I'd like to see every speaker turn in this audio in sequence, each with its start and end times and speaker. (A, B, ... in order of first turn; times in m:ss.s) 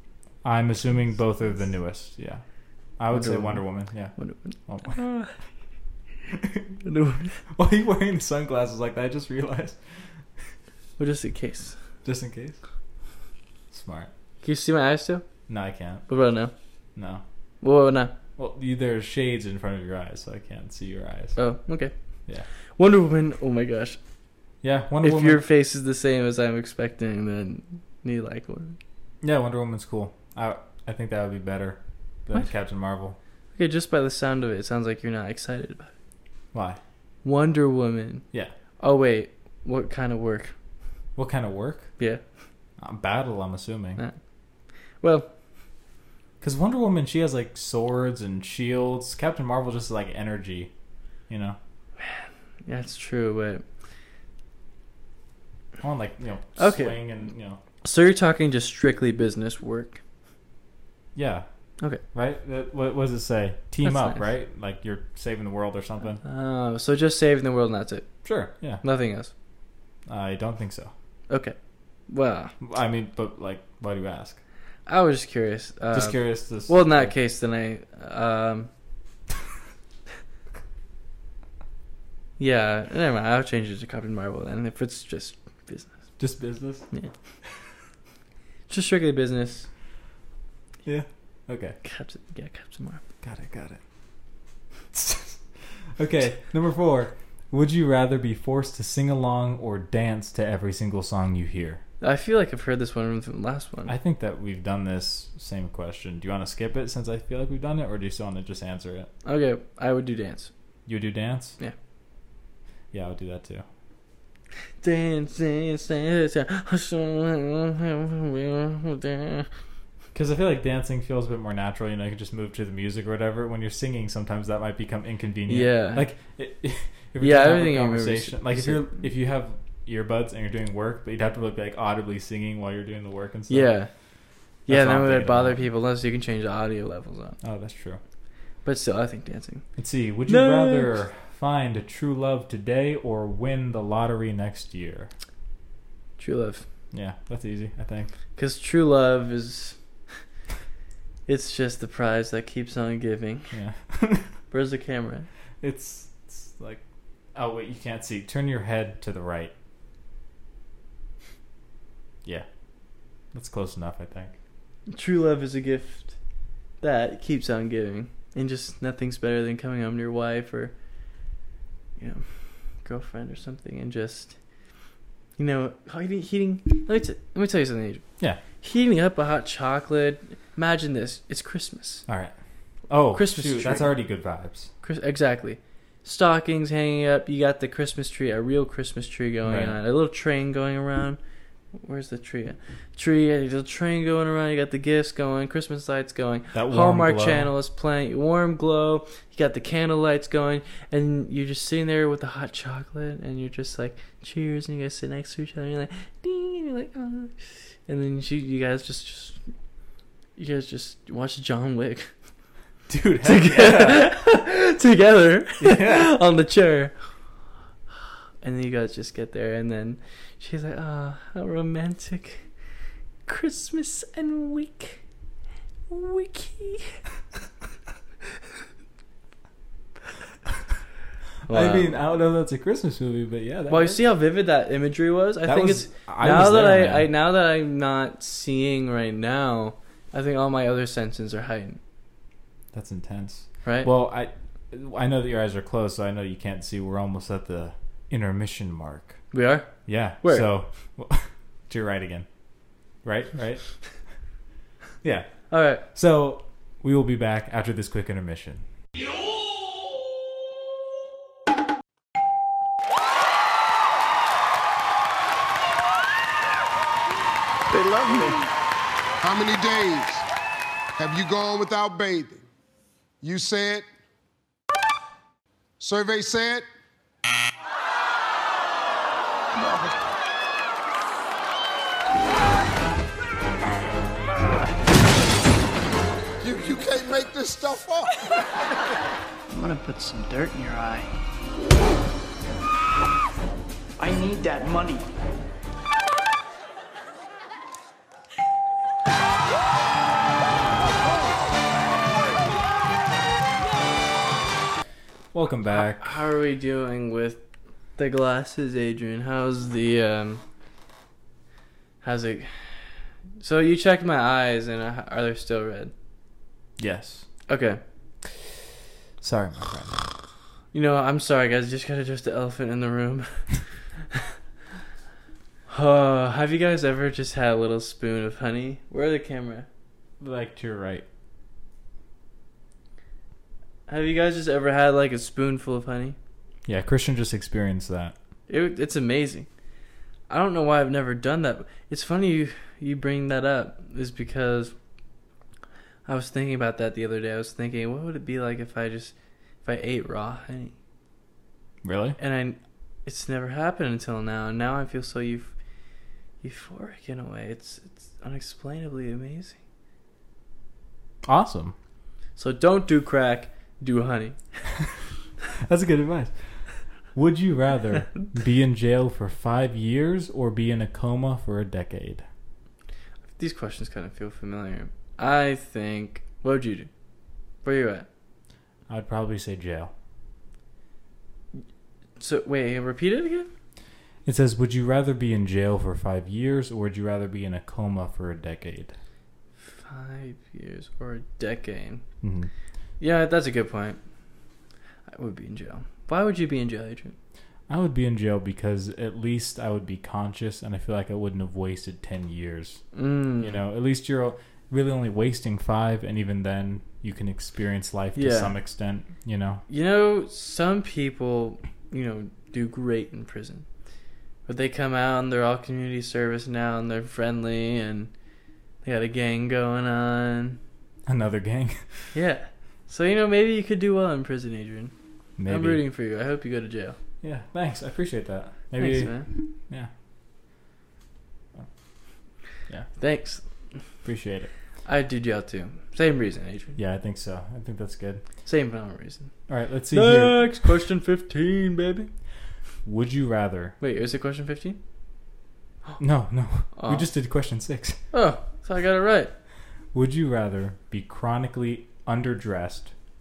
0:00.4-0:02.4 A
0:03.0-0:04.1 A
0:03.1-0:05.3 B
0:04.6-0:05.0 A
0:06.3-0:06.6 A
0:06.8-0:07.4 B
0:07.5-0:10.0 A
0:11.0-0:11.8 B
0:12.0-0:12.6 A
0:13.7-0:14.1 A
0:14.4-0:15.2 B
0:15.5-0:16.1 A
0:16.1-0:16.5 B
0:17.0-0:17.2 A
0:17.6-0:18.1 B
0:18.4-0:21.4 A
0:21.4-0:21.9 B
0:22.8-0:24.0 B
0:24.6-0:25.4 A
0:25.0-0:28.8 B
0:29.2-0:33.2 A
0:33.5-0:35.9 B
0:36.5-0:36.8 A
0:37.2-0:38.2 B
0:38.8-0:40.5 B
0:41.2-0:41.9 A
0:42.8-0:44.0 A
0:45.0-0:45.3 B
0:46.4-0:50.7 A
0:51.3-0:51.6 A
0:52.0-0:53.6 B
0:55.8-0:57.6 A
0:56.6-0:57.0 B
0:57.8-1:00.0 B
1:01.1-1:01.4 A
1:02.1-1:06.2 A
1:03.8-1:04.2 B
1:06.2-1:08.2 B
1:08.2-1:08.8 A
1:08.8-1:09.3 B
1:10.1-1:10.9 A
1:11.3-1:11.6 B
1:12.1-1:12.5 B
1:12.6-1:14.4 A
1:14.8-1:18.7 B
1:15.9-1:17.1 A
1:22.4-1:26.1 B
1:26.2-1:26.9 A
1:28.7-1:29.7 B
1:30.8-1:31.8 A
1:31.8-1:33.0 B
1:33.2-1:33.8 A
1:34.9-1:41.8 A
1:42.0-1:43.9 B
1:43.9-1:49.1 A
1:49.2-1:50.5 B
1:50.8-1:51.6 A
1:52.9-1:53.6 A
1:54.8-1:59.5 B
2:00.1-2:13.7 A
2:05.5-2:06.0 B
2:07.2-2:08.9 B
2:13.5-2:13.9 B
2:14.7-2:15.6 A
2:14.7-2:17.4 B
2:17.4-2:18.0 A
2:18.6-2:19.6 B
2:19.8-2:25.1 A
2:20.3-2:20.9 B
2:26.2-2:26.7 B
2:26.9-2:28.1 A
2:28.4-2:29.8 B
2:31.3-2:33.5 B
2:33.5-2:34.3 A
2:34.5-2:35.3 B
2:35.6-2:36.8 A
2:37.3-2:39.5 A
2:43.3-2:44.3 A
2:44.9-2:46.2 B
2:46.8-2:50.7 B
2:52.0-2:54.4 B
2:55.4-2:58.0 B
2:58.6-3:02.0 B
3:02.1-3:02.3 A
3:02.9-3:04.7 A
3:03.1-3:03.9 B
3:04.8-3:11.2 B
3:09.4-3:09.8 A
3:11.7-3:29.4 B
3:16.5-3:17.5 A
3:30.4-3:32.1 B
3:32.9-3:34.1 A
3:33.2-3:36.9 B
3:35.6-3:36.1 A
3:38.4-3:42.5 B
3:43.2-3:45.0 B
3:45.9-3:47.0 B
3:51.5-3:51.9 B
3:51.5-3:54.0 A
3:53.7-4:01.8 B
3:55.4-3:57.1 A
4:02.7-4:09.2 A
4:03.6-4:03.9 B
4:09.3-4:10.5 B
4:09.8-4:12.3 A
4:13.0-4:14.0 A
4:15.0-4:18.6 A
4:15.5-4:15.8 B
4:27.7-4:28.3 C
4:27.7-4:28.5 D
4:29.2-4:30.3 C
4:31.0-4:32.4 C
4:33.2-4:33.8 C
4:35.8-4:36.6 C
4:39.6-4:39.9 C
4:46.4-4:48.3 C
4:49.5-4:51.1 D
4:54.0-4:55.1 D
5:05.3-5:06.0 A
5:05.7-5:07.4 B
5:08.0-5:10.4 B
5:12.0-5:15.9 B
5:16.8-5:17.3 A
5:17.5-5:17.8 B
5:19.2-5:20.2 A
5:20.7-5:24.3 B
5:25.7-5:29.7 B
5:30.2-5:31.0 A
5:33.9-5:36.2 B
5:36.6-5:38.1 A
5:38.5-5:39.5 B
5:40.3-5:44.7 B
5:46.0-5:50.8 B
5:51.8-5:52.2 A
5:52.2-5:55.5 B
5:56.4-5:59.6 B
6:01.2-6:01.7 A
6:02.4-6:04.6 B
6:05.6-6:12.2 A
6:13.4-6:16.9 B
6:17.6-6:18.1 B
6:18.9-6:19.9 A
6:22.2-6:23.5 B
6:24.2-6:29.0 A
6:29.6-6:32.0 B
6:32.2-6:32.5 A
6:33.0-6:34.0 B
6:35.1-6:37.2 B
6:37.7-6:42.8 A
6:42.9-6:43.6 B
6:43.4-6:49.6 A
6:48.1-6:48.5 B
6:49.7-6:53.6 B
6:54.5-6:58.1 B
6:58.8-7:00.6 B
7:01.0-7:02.1 A
7:02.1-7:04.9 B
7:05.4-7:05.8 A
7:05.4-7:07.0 B
7:07.2-7:09.9 A
7:08.8-7:09.3 B
7:13.0-7:13.4 B
7:14.0-7:14.5 A
7:14.8-7:16.8 B
7:16.8-7:18.2 A
7:18.4-7:19.3 B
7:19.5-7:20.6 A
7:19.9-7:22.1 B
7:22.8-7:23.8 A
7:23.8-7:24.8 B
7:26.0-7:28.0 A
7:26.7-7:27.0 B
7:28.1-7:29.3 B
7:29.9-7:32.9 A